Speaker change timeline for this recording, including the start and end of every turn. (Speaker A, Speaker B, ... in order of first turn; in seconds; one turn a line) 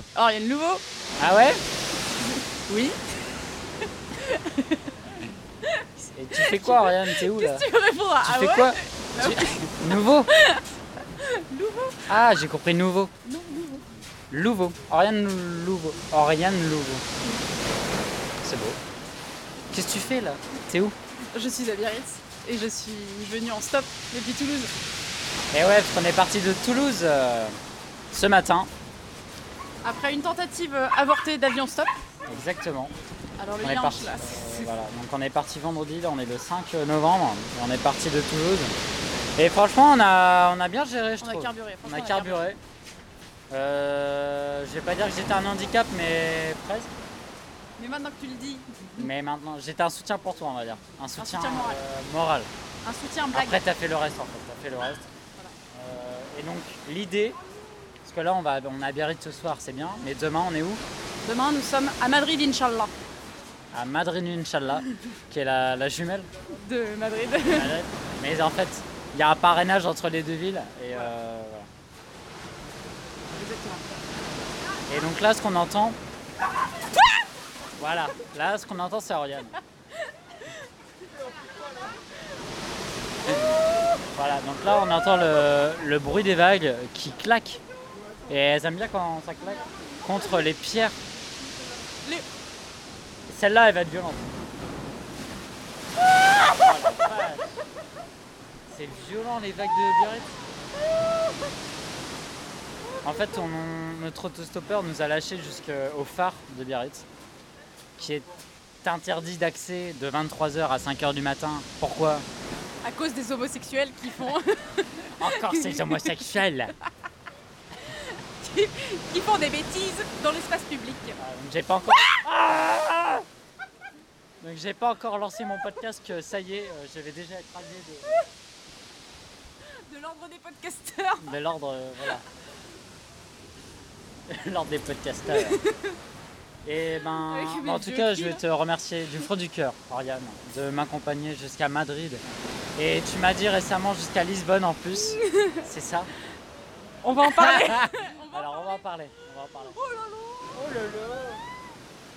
Speaker A: 0.1-0.8
Speaker B: 1.2-1.6
Speaker A: 2.7-3.0
Speaker A: 4.1-10.7
Speaker B: 6.1-7.6
Speaker B: 8.2-10.3
Speaker A: 11.2-12.1
Speaker B: 12.1-13.1
Speaker A: 13.2-13.8
Speaker B: 14.3-17.0
Speaker B: 18.4-18.8
Speaker B: 19.7-20.9
Speaker A: 21.3-24.7
Speaker B: 25.5-27.6
Speaker B: 28.1-28.7
Speaker A: 29.8-32.0
Speaker B: 32.3-32.9
Speaker A: 33.4-34.7
Speaker B: 33.6-38.7
Speaker B: 39.4-42.6
Speaker A: 41.2-42.5
Speaker B: 43.5-46.9
Speaker A: 47.8-49.1
Speaker B: 49.0-52.5
Speaker A: 51.2-51.8
Speaker A: 52.8-53.6
Speaker B: 53.3-55.1
Speaker B: 55.7-57.4
Speaker B: 58.0-60.8
Speaker A: 61.2-62.9
Speaker B: 63.7-66.3
Speaker A: 66.5-67.8
Speaker B: 67.5-71.7
Speaker A: 73.3-73.8
Speaker B: 74.9-76.0
Speaker B: 77.8-79.6
Speaker B: 84.1-87.6
Speaker B: 88.3-91.0
Speaker B: 93.3-94.3
Speaker B: 96.5-97.5
Speaker B: 98.7-100.4
Speaker B: 103.0-107.0
Speaker B: 108.0-108.3
Speaker B: 108.8-112.3
Speaker A: 112.8-116.2
Speaker B: 115.2-116.7
Speaker A: 117.8-121.2
Speaker B: 121.2-123.3
Speaker B: 124.4-128.2
Speaker A: 129.8-131.3
Speaker B: 131.2-132.2
Speaker B: 134.3-135.6
Speaker A: 135.3-135.8
Speaker B: 136.7-142.2
Speaker A: 137.1-138.4
Speaker B: 142.8-146.1
Speaker A: 145.2-145.6
Speaker B: 147.0-149.8
Speaker A: 147.1-148.8
Speaker A: 149.8-150.5
Speaker B: 150.5-151.4